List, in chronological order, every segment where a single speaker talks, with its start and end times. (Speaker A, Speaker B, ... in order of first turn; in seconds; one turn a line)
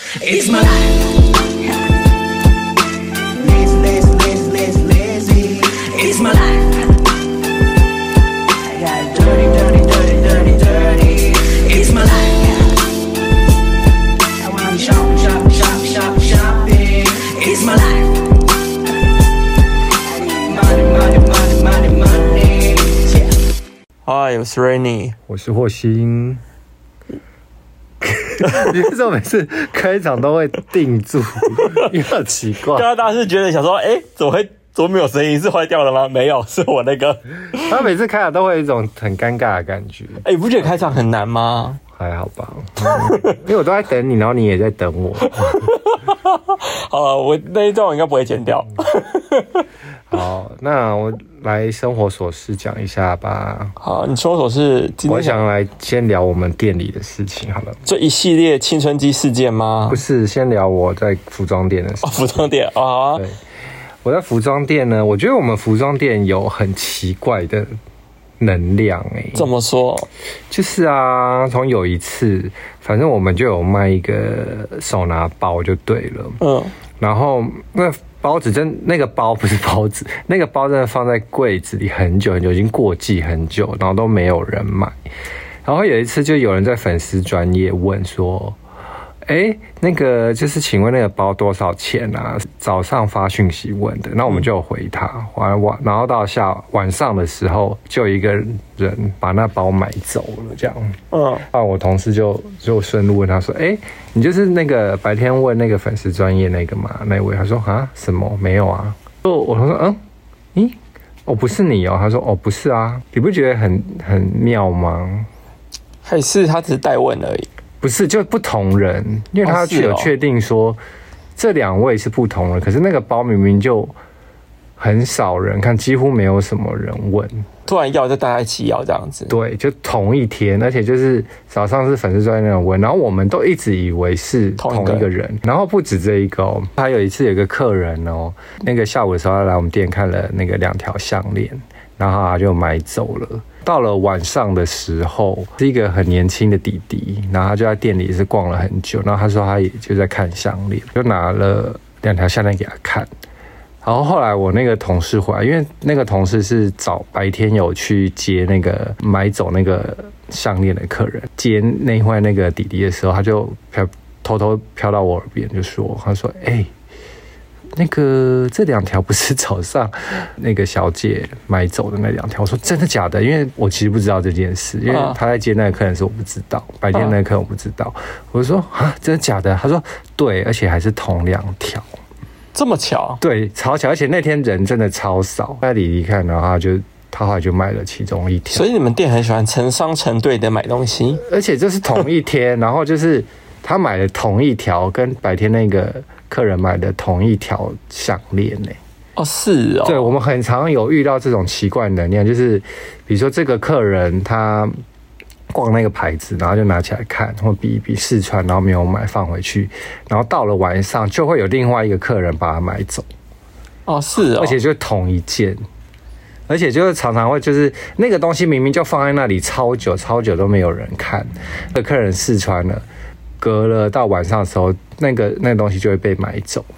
Speaker A: 0.1-1.3
Speaker A: 3.4-6.9
Speaker A: 8.6-12.9
Speaker A: 14.4-18.2
Speaker A: 20.1-23.3
Speaker B: 24.1-25.2
Speaker C: 25.3-26.4
Speaker C: 28.0-32.9
Speaker B: 31.6-31.9
Speaker B: 32.7-37.8
Speaker C: 37.5-41.0
Speaker B: 40.2-41.8
Speaker C: 41.9-45.7
Speaker B: 42.8-43.4
Speaker B: 45.2-49.6
Speaker C: 50.1-53.8
Speaker B: 53.8-55.4
Speaker C: 55.1-57.8
Speaker B: 57.9-60.0
Speaker C: 59.9-62.4
Speaker B: 62.0-63.2
Speaker C: 64.0-67.7
Speaker C: 68.4-69.5
Speaker B: 69.3-70.1
Speaker C: 70.5-76.4
Speaker B: 76.4-76.7
Speaker C: 77.0-85.0
Speaker C: 85.6-88.6
Speaker C: 89.3-110.0
Speaker B: 101.1-101.5
Speaker C: 110.5-115.3
Speaker B: 116.0-117.5
Speaker C: 117.8-120.8
Speaker B: 119.4-120.1
Speaker C: 121.4-123.9
Speaker C: 124.8-127.5
Speaker B: 127.7-129.3
Speaker C: 129.3-153.1
Speaker B: 134.6-135.1
Speaker C: 153.8-166.7
Speaker C: 167.8-181.9
Speaker B: 174.9-175.2
Speaker B: 182.5-183.2
Speaker C: 183.2-188.7
Speaker B: 188.5-191.2
Speaker C: 191.2-198.8
Speaker B: 199.2-200.1
Speaker C: 199.8-204.8
Speaker C: 205.5-213.1
Speaker B: 213.9-214.6
Speaker C: 214.2-215.6
Speaker C: 216.5-222.8
Speaker C: 223.4-226.7